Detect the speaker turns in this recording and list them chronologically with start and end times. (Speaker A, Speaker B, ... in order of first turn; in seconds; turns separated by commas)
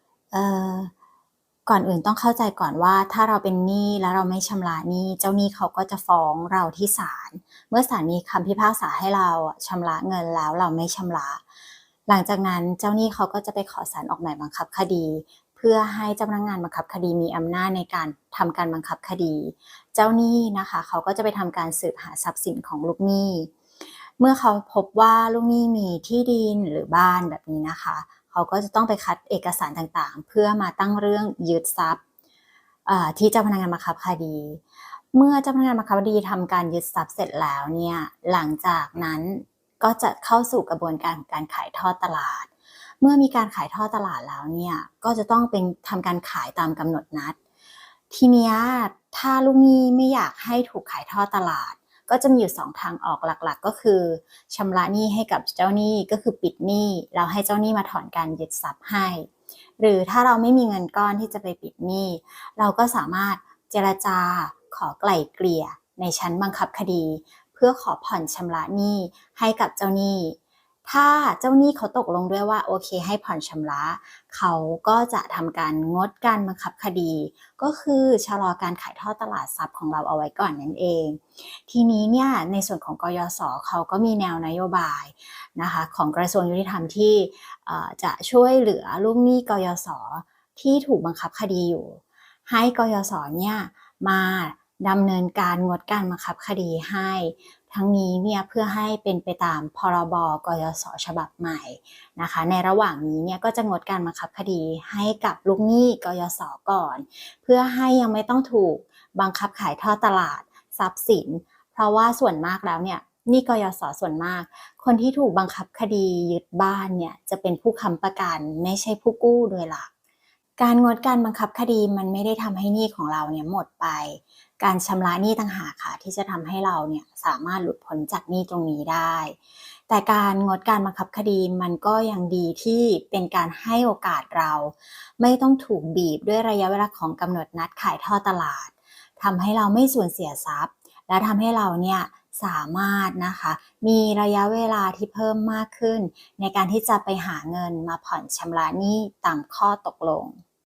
Speaker A: 0.3-0.9, Speaker A: 1.7-11.4, Speaker A: 12.1-23.5, Speaker A: 24.2-32.0, Speaker A: 32.9-34.6, Speaker A: 35.1-47.4, Speaker A: 48.1-119.9, Speaker A: 120.6-150.4